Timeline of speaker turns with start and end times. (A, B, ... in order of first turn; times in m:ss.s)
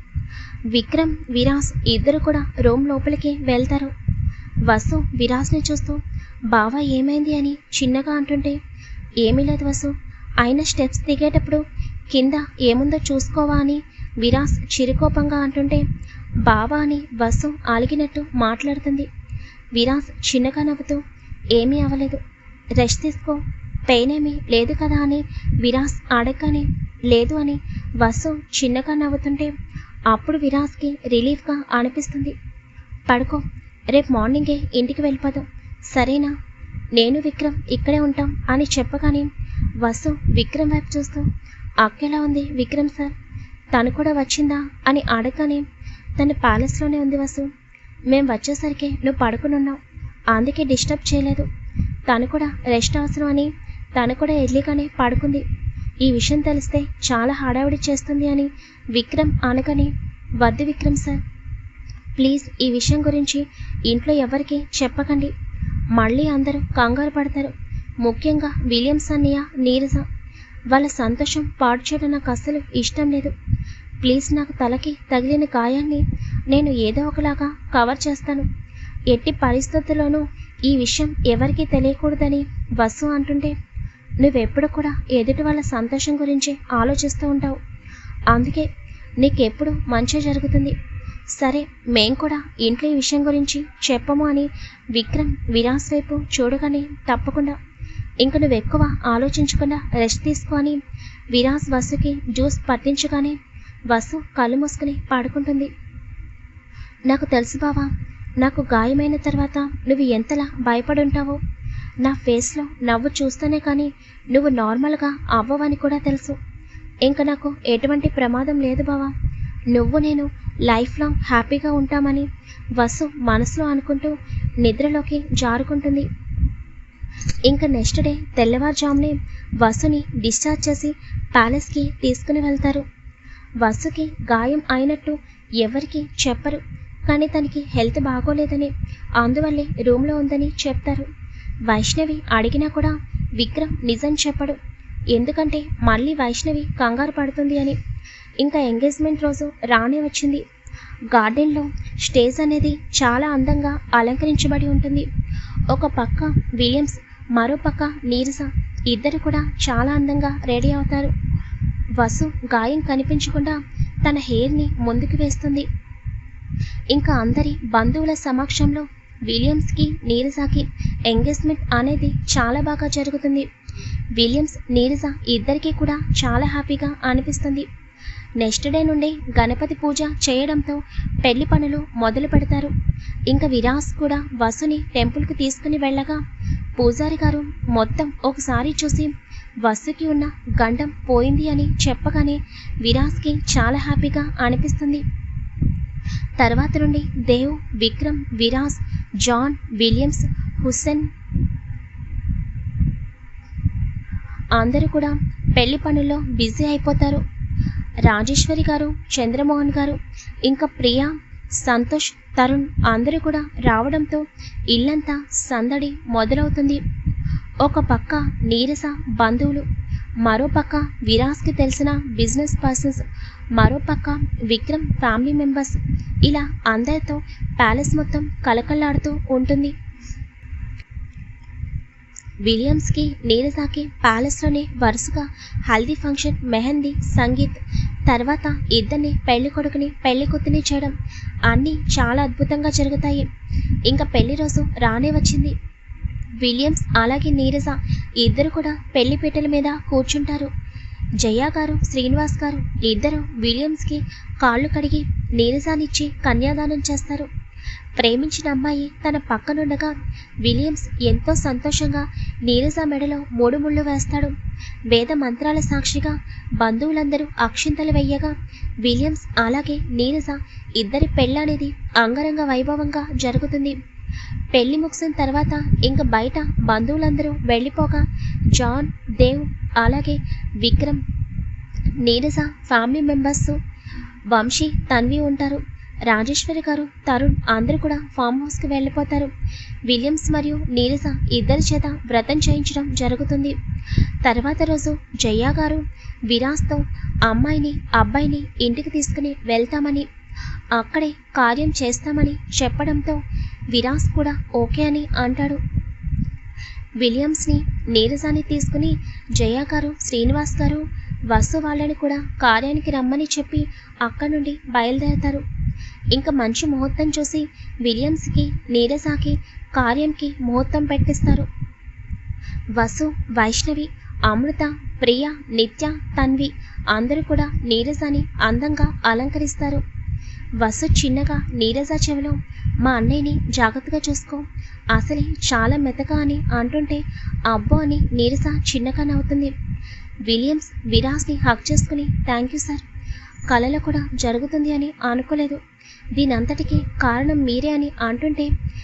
0:00.7-0:03.9 A
0:04.6-0:08.6 A
0:09.2-0:15.8 A
0:16.4-0:19.1 A
0:19.7-0:21.0 A
0:21.5-0:22.2 A
0:22.8-0:29.5 A
0:30.1-0:32.3 A
0:33.1-0:36.3 A
0:36.9-0:41.3 A
0:41.8-0:43.1 A
0:43.7-0:45.6 A
0:46.2-0:47.5 A
0:48.1-0:49.8 A
0:50.3-0:51.5 A
0:52.1-0:55.4 A
0:56.0-1:01.2 A
1:02.2-1:05.3 A
1:05.9-1:10.0 A
1:10.7-1:13.3 A
1:14.0-1:18.5 A
1:19.1-1:23.5 A
1:24.2-1:27.6 A
1:28.3-1:28.7 A
1:29.2-1:30.7 A
1:31.4-1:37.6 A
1:38.2-1:40.8 A
1:41.3-1:43.4 A
1:43.9-1:45.7 A
1:47.1-1:51.4 A
1:52.0-1:56.4 A
1:57.0-1:59.1 A
1:59.7-2:06.1 A
2:07.4-2:12.8 A
2:13.6-2:21.1 A
2:21.6-2:24.6 A
2:25.1-2:27.8 A
2:28.4-2:30.4 A
2:31.1-2:35.1 A
2:35.7-2:41.1 A
2:42.0-2:45.7 A
2:46.9-2:53.4 A
2:54.1-2:57.7 A
2:58.4-3:02.7 A
3:03.3-3:06.2 A
3:06.8-3:15.0 A
3:16.4-3:21.1 A
3:24.5-3:27.2 A
3:28.0-3:36.8 A
3:37.6-3:39.6 A
3:40.2-3:49.7 A
3:52.4-4:00.9 A
4:01.5-4:03.2 A
4:03.9-4:05.5 A
4:06.4-4:10.5 A
4:11.2-4:17.3 A
4:18.0-4:24.3 A
4:24.9-4:33.8 A
4:34.5-4:41.0 A
4:42.0-4:43.6 A
4:44.3-4:49.3 A
4:49.8-4:53.6 A
4:54.2-5:00.1 A
5:00.7-5:05.6 A
5:07.0-5:15.4 A
5:16.1-5:21.5 A
5:22.7-5:29.8 A
5:30.6-5:39.5 A
5:40.2-5:42.8 A
5:43.5-5:45.6 A
5:46.1-5:48.5 A